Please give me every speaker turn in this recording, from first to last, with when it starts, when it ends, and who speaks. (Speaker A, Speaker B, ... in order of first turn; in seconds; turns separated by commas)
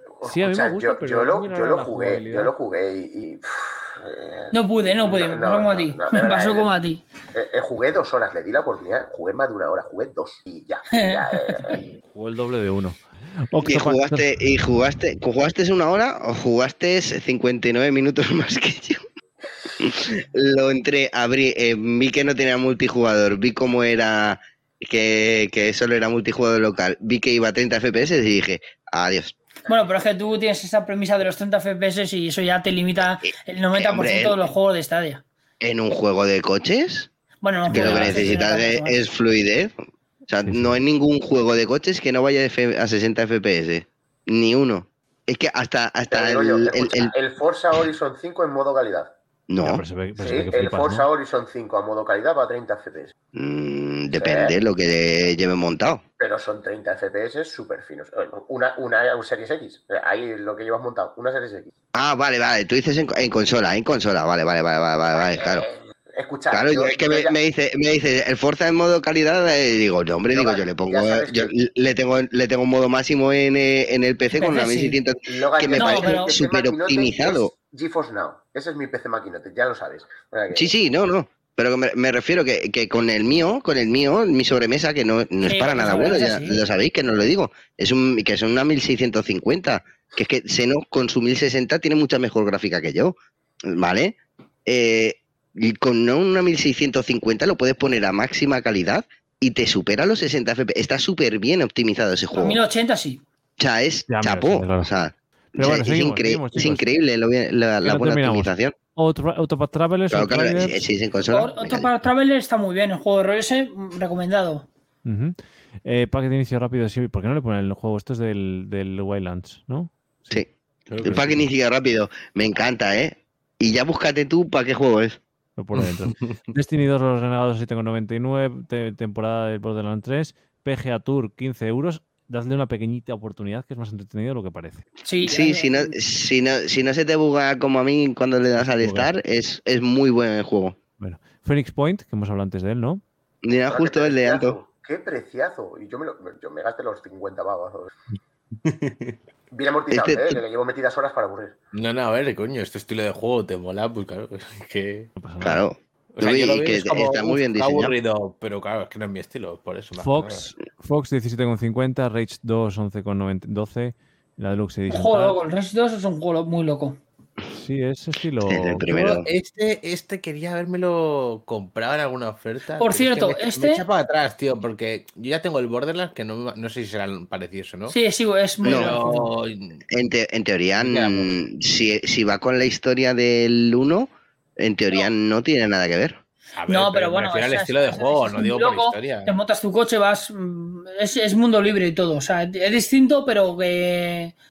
Speaker A: 0.2-6.7, Speaker B: 0.2-2.5, Speaker C: 4.5-7.0, Speaker A: 7.3-11.8, Speaker C: 11.0-11.8, Speaker B: 12.1-13.0, Speaker B: 13.5-14.3, Speaker D: 13.6-19.0, Speaker D: 19.8-29.3, Speaker C: 29.6-35.2, Speaker D: 33.7-34.4, Speaker D: 35.6-37.1, Speaker C: 37.4-39.0, Speaker D: 37.7-39.7, Speaker B: 37.7-38.3, Speaker E: 37.9-38.3, Speaker D: 40.3-47.1, Speaker B: 40.5-40.8, Speaker A: 46.1-49.1, Speaker D: 49.5-49.8, Speaker B: 49.6-51.1, Speaker A: 50.2-53.1, Speaker D: 53.3-56.0, Speaker A: 54.1-54.5, Speaker A: 56.2-61.7, Speaker D: 61.9-65.7, Speaker A: 65.2-67.3, Speaker D: 66.5-77.5, Speaker A: 70.3-71.5, Speaker C: 74.3-75.0, Speaker A: 75.2-80.7, Speaker C: 75.8-76.4, Speaker D: 80.5-102.6, Speaker C: 85.4-86.6, Speaker C: 102.3-103.2, Speaker D: 103.6-108.7, Speaker B: 104.1-104.9, Speaker B: 105.5-107.0, Speaker B: 107.8-110.8, Speaker D: 110.1-111.9, Speaker C: 111.3-114.7, Speaker B: 115.0-120.4, Speaker E: 120.9-121.4, Speaker B: 121.0-121.3, Speaker D: 121.0-125.2, Speaker B: 125.6-134.8, Speaker C: 135.0-135.9, Speaker D: 135.2-140.8, Speaker B: 138.7-139.1, Speaker B: 141.0-143.0, Speaker D: 143.4-144.6, Speaker A: 143.7-147.9, Speaker E: 148.6-149.2, Speaker A: 149.5-151.5, Speaker D: 149.9-150.4, Speaker E: 151.7-155.1, Speaker B: 155.2-155.7, Speaker D: 155.4-157.9, Speaker E: 156.1-160.4, Speaker B: 160.0-165.4, Speaker C: 164.9-167.0, Speaker B: 167.5-169.2, Speaker D: 168.4-169.3, Speaker E: 168.9-177.9, Speaker C: 172.8-173.8, Speaker C: 177.9-179.3, Speaker E: 178.6-179.8, Speaker D: 178.6-178.9, Speaker D: 179.9-186.2, Speaker E: 180.8-181.4, Speaker E: 186.6-189.3, Speaker C: 186.7-194.3